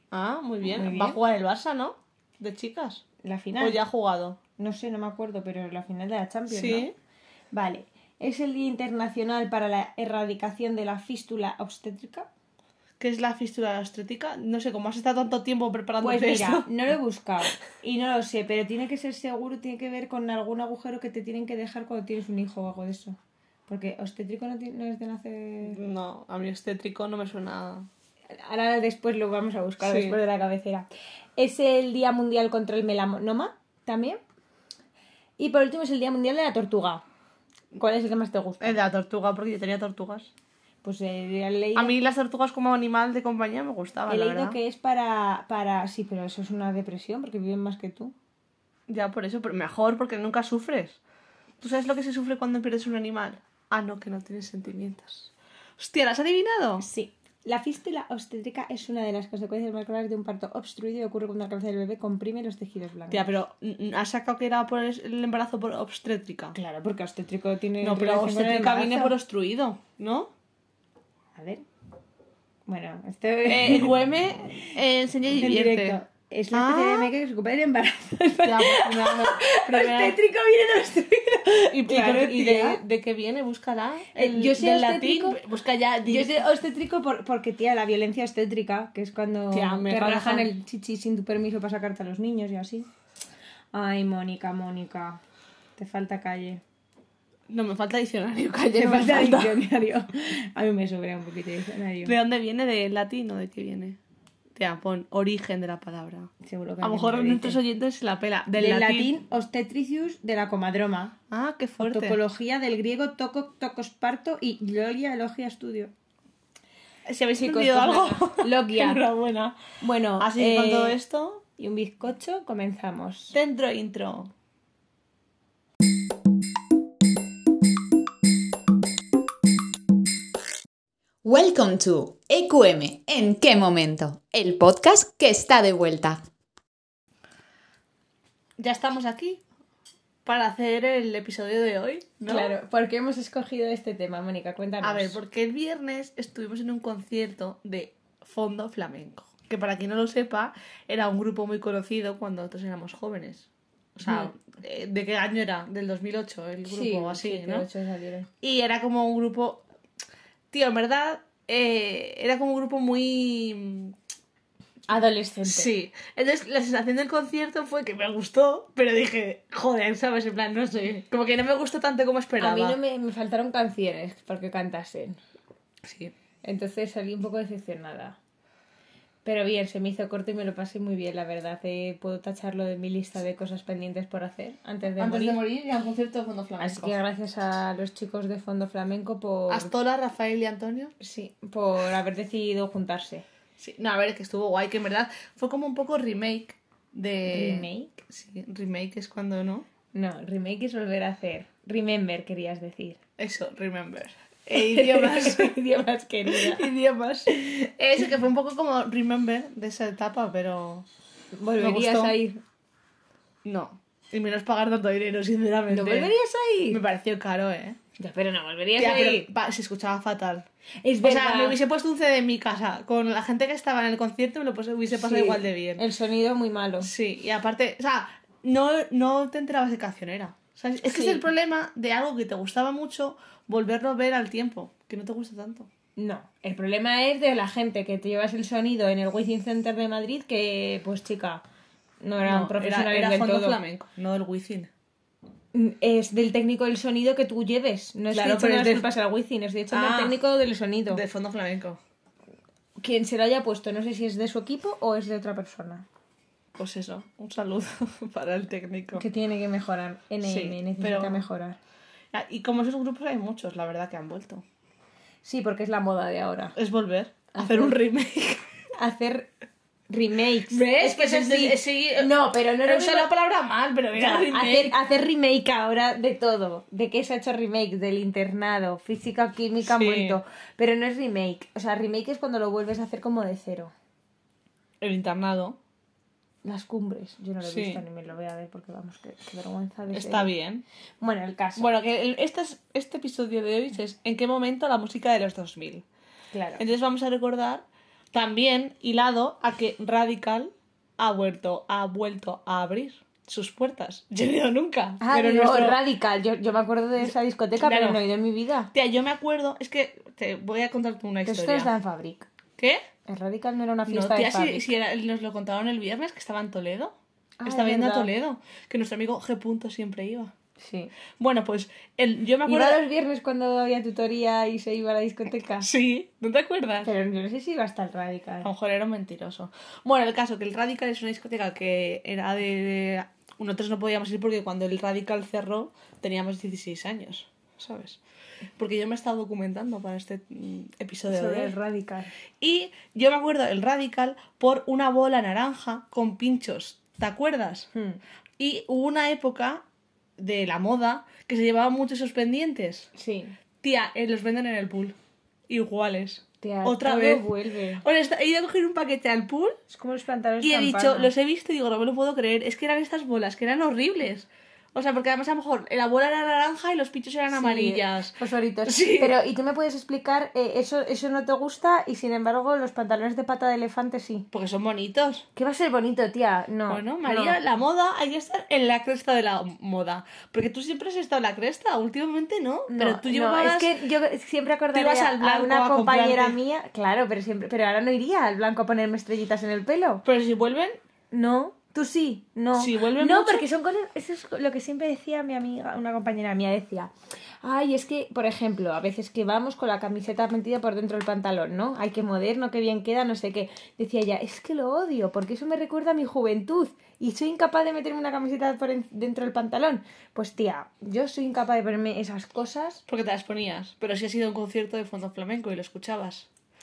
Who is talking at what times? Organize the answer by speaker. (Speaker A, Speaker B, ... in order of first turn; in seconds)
Speaker A: 0.1-3.0, 3.6-4.4, 6.5-6.9, 13.0-16.9, 25.6-27.9, 29.8-30.2, 38.6-40.3, 41.8-44.6, 48.9-51.0, 51.6-56.9, 63.1-66.6, 67.8-70.3, 73.5-76.0, 76.5-77.1, 78.4-80.2, 81.7-86.3, 89.5-90.5, 97.5-99.7, 102.0-104.0, 104.5-106.3, 106.8-109.1, 111.3-112.2, 117.1-119.6, 120.2-121.4, 123.3-124.3, 138.6-139.4, 140.2-142.6, 144.8-157.7, 158.4-159.6, 160.5-164.0, 165.4-172.8, 175.8-176.1, 185.0-187.0, 189.5-190.9, 193.6-199.7, 203.2-205.6, 206.3-210.9, 211.6-212.2, 213.4-216.1, 216.7-217.8, 218.8-220.5, 221.0-225.8, 226.8-235.7, 242.2-244.7, 248.1-248.9, 249.7-250.2, 250.9-251.8, 256.6-259.1, 260.2-261.3, 262.1-264.4, 266.6-268.5, 270.5-274.8, 279.6-280.2, 284.8-285.6, 287.4-287.8, 289.9-290.6, 291.6-295.9, 296.6-305.8, 307.0-308.0, 308.7-311.7, 312.6-312.8, 313.9-320.3, 321.2-322.8, 325.6-326.9, 328.4-338.0, 338.6-341.5, 342.4-347.7, 348.4-349.6, 350.2-352.9, 353.6-355.0, 355.5-357.3, 357.8-359.6, 360.4-369.2, 374.3-375.2, 376.7-383.7, 384.7-386.4, 390.1-390.8, 392.6-393.4, 412.9-416.3
Speaker B: 0.7-1.2, 3.2-3.8, 4.6-6.9, 7.5-12.3, 16.0-23.2, 23.7-25.8, 28.4-30.9, 31.4-34.2, 35.4-37.0, 37.8-38.8, 40.8-42.0, 44.1-48.1, 56.8-63.3, 66.5-69.1, 71.4-71.6, 72.7-74.0, 75.4-82.8, 84.2-85.4, 86.1-92.9, 93.7-95.2, 95.8-96.6, 98.7-102.2, 106.4-107.6, 108.5-111.2, 111.8-115.9, 117.4-119.0, 119.8-121.0, 121.6-123.4, 142.3-145.2, 156.7-158.3, 164.9-165.7, 172.4-175.2, 176.4-178.2, 179.2-185.4, 186.6-189.7, 191.0-193.2, 197.3-198.0, 199.9-203.0, 204.5-206.7, 211.3-212.4, 215.7-216.8, 218.0-219.3, 220.8-221.6, 224.9-226.9, 230.8-231.3, 236.0-241.4, 242.0-243.6, 245.5-251.0, 252.8-255.9, 259.0-261.6, 265.2-266.6, 267.3-267.8, 268.8-269.3, 269.9-273.1, 273.9-283.7, 286.4-290.3, 291.0-291.7, 296.3-296.6, 305.0-308.7, 311.2-312.3, 313.1-314.6, 317.4-318.1, 320.6-320.9, 322.4-325.7, 326.8-328.5, 341.1-342.1, 347.7-348.0, 352.9-353.4, 356.4-357.8, 359.7-361.1, 367.3-374.3, 375.4-377.4, 382.7-390.0, 391.1-396.9, 397.4-412.8
Speaker C: 131.2-136.2